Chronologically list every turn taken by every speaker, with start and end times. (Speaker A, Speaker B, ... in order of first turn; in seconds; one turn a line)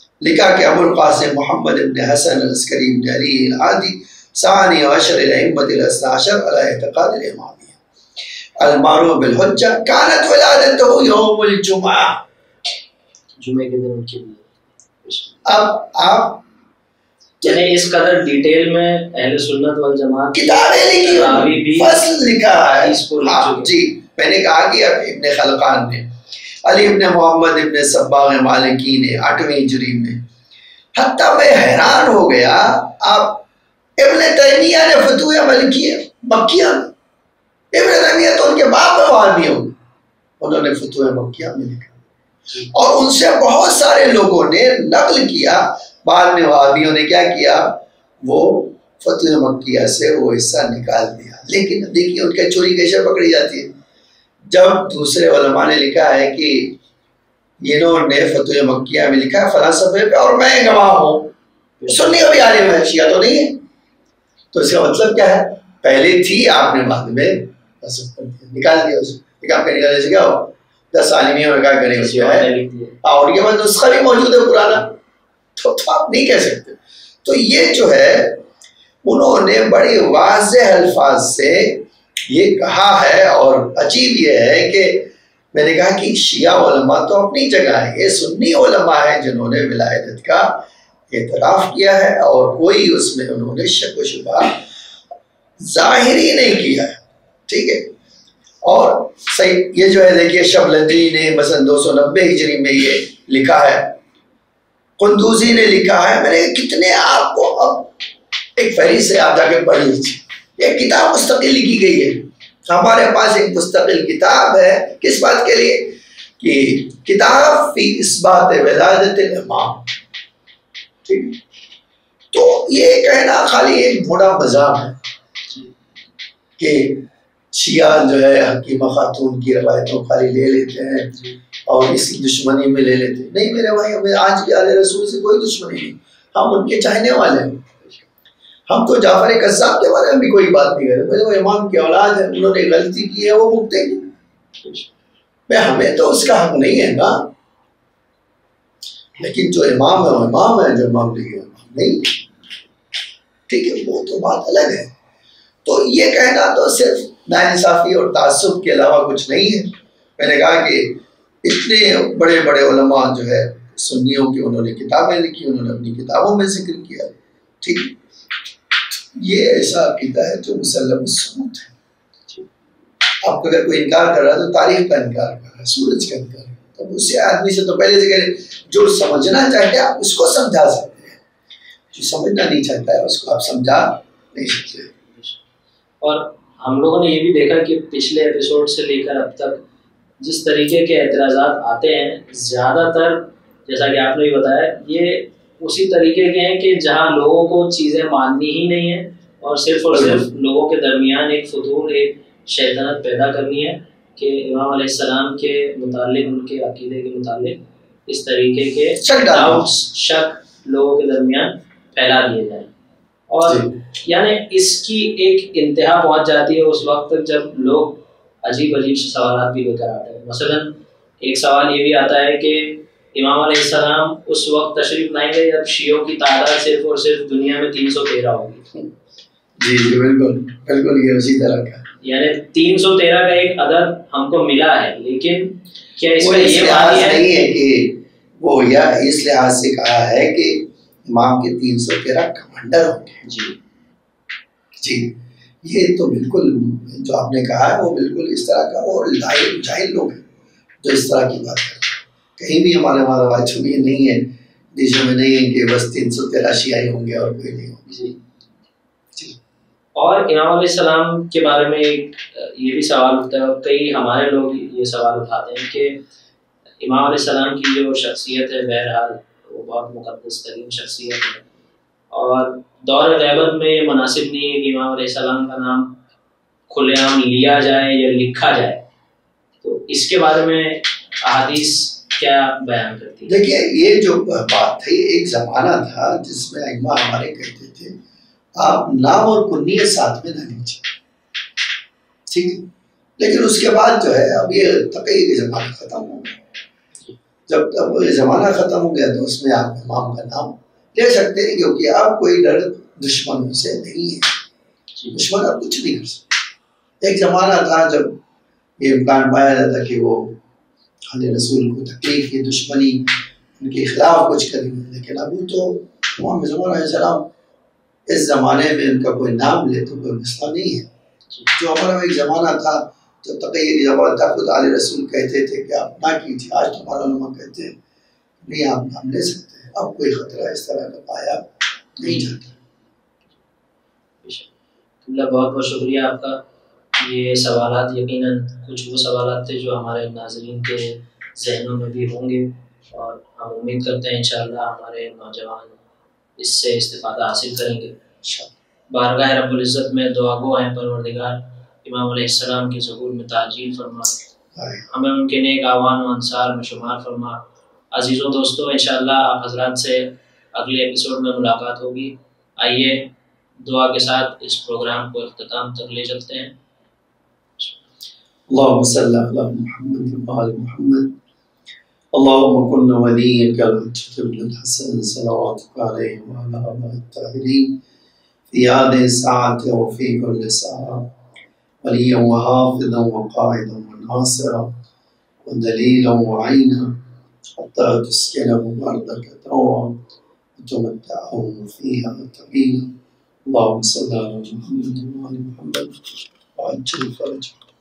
Speaker A: 0.2-7.8
Speaker A: 8.6-12.2
Speaker B: 13.4-15.4
Speaker A: 15.4-16.4
Speaker B: 17.4-22.0
Speaker A: 17.4-17.7
Speaker A: 20.3-26.1
Speaker B: 22.5-23.7
Speaker A: 26.6-30.2
Speaker A: 30.9-33.4
Speaker A: 34.0-36.9
Speaker A: 37.7-39.7
Speaker A: 40.4-42.0
Speaker A: 42.7-53.7
Speaker A: 54.5-56.8
Speaker A: 57.6-61.3
Speaker B: 61.8-62.2
Speaker A: 61.9-63.6
Speaker A: 64.5-72.5
Speaker B: 71.9-73.0
Speaker A: 73.0-75.0
Speaker A: 75.5-78.4
Speaker A: 79.0-94.6
Speaker A: 95.6-97.9
Speaker A: 98.6-104.0
Speaker A: 105.0-107.9
Speaker A: 108.6-119.9
Speaker A: 121.0-121.3
Speaker A: 122.3-125.0
Speaker A: 126.6-131.1
Speaker A: 131.7-137.6
Speaker A: 138.7-144.1
Speaker B: 144.6-144.9
Speaker A: 145.5-147.3
Speaker A: 149.2-152.2
Speaker A: 153.5-154.9
Speaker A: 155.6-167.9
Speaker A: 168.9-171.7
Speaker A: 173.2-181.2
Speaker A: 181.9-184.9
Speaker B: 185.1-185.4
Speaker B: 186.0-189.6
Speaker B: 190.2-212.7
Speaker A: 199.9-200.2
Speaker A: 209.0-209.7
Speaker B: 213.3-228.6
Speaker A: 213.4-213.7
Speaker A: 229.6-231.8
Speaker B: 232.0-237.2
Speaker A: 236.2-243.2
Speaker B: 243.2-243.5
Speaker A: 244.8-250.2
Speaker A: 250.8-257.9
Speaker B: 257.9-258.1
Speaker B: 259.9-266.0
Speaker B: 266.8-271.4
Speaker B: 272.1-276.0
Speaker B: 276.7-278.8
Speaker B: 279.6-283.4
Speaker A: 283.2-288.0
Speaker A: 288.6-290.9
Speaker A: 292.3-296.4
Speaker A: 297.5-304.3
Speaker A: 305.1-306.2
Speaker A: 307.0-308.2
Speaker A: 308.8-310.4
Speaker A: 311.1-317.3
Speaker A: 318.1-320.9
Speaker A: 321.5-327.7
Speaker A: 328.4-332.5
Speaker B: 332.0-332.3
Speaker B: 334.2-334.5
Speaker B: 335.0-336.4
Speaker B: 337.0-345.8
Speaker B: 346.4-347.9
Speaker A: 348.2-348.5
Speaker B: 348.9-354.2
Speaker A: 354.5-354.8
Speaker B: 354.9-366.5
Speaker A: 368.5-371.1
Speaker A: 372.1-377.8
Speaker A: 378.5-381.1
Speaker A: 381.8-384.7
Speaker A: 385.4-387.0
Speaker A: 387.6-390.0
Speaker A: 390.6-392.9
Speaker A: 393.4-397.6